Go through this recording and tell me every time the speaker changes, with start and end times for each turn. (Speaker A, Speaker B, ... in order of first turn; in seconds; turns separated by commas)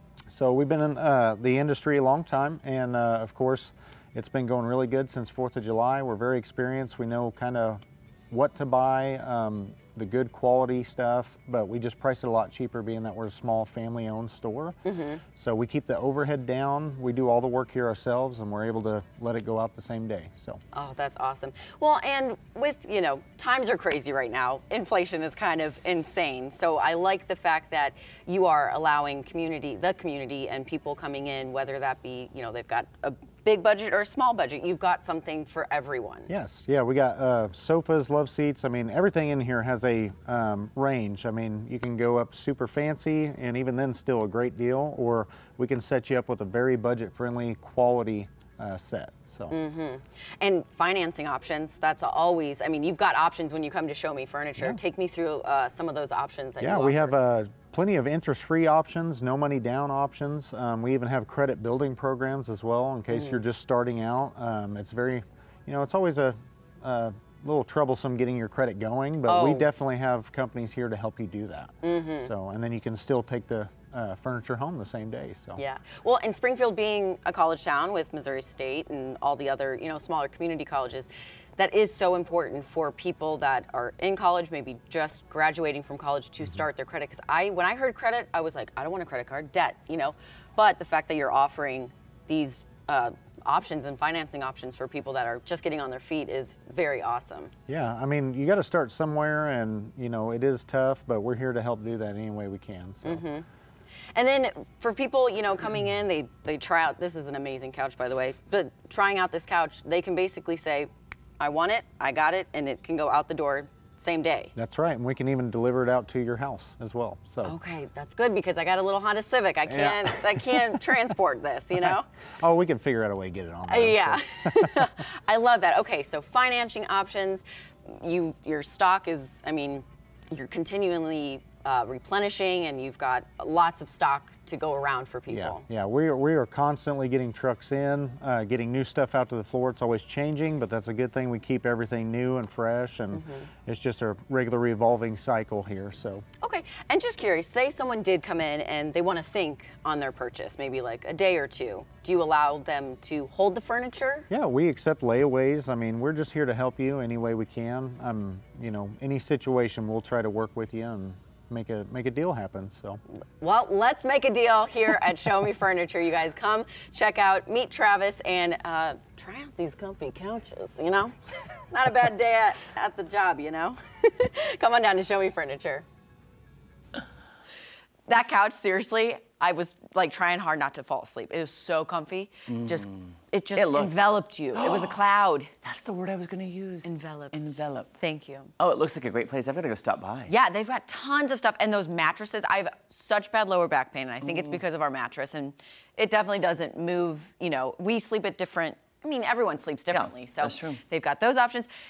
Speaker A: 0.3-14.8, Speaker B: 14.8-15.2, Speaker A: 15.3-20.6, Speaker B: 20.7-36.3, Speaker A: 36.3-49.5, Speaker B: 49.5-57.1, Speaker A: 56.6-75.6, Speaker B: 63.1-63.4, Speaker B: 69.3-69.7, Speaker B: 71.8-72.3, Speaker B: 75.6-97.5, Speaker A: 97.7-103.2, Speaker B: 103.0-103.4, Speaker B: 104.1-110.9, Speaker B: 111.4-114.5, Speaker A: 114.5-117.5, Speaker B: 117.4-122.1, Speaker A: 119.7-120.8, Speaker A: 121.8-124.9, Speaker B: 123.7-135.6, Speaker A: 135.3-146.2, Speaker B: 143.1-143.5, Speaker B: 146.4-154.3, Speaker A: 154.3-163.0, Speaker B: 163.4-175.8, Speaker B: 178.1-185.5, Speaker C: 182.5-182.9, Speaker C: 183.6-184.0, Speaker C: 184.5-184.9, Speaker C: 185.6-187.9, Speaker B: 186.8-188.5, Speaker C: 188.6-190.3, Speaker B: 190.3-201.7, Speaker C: 199.9-200.8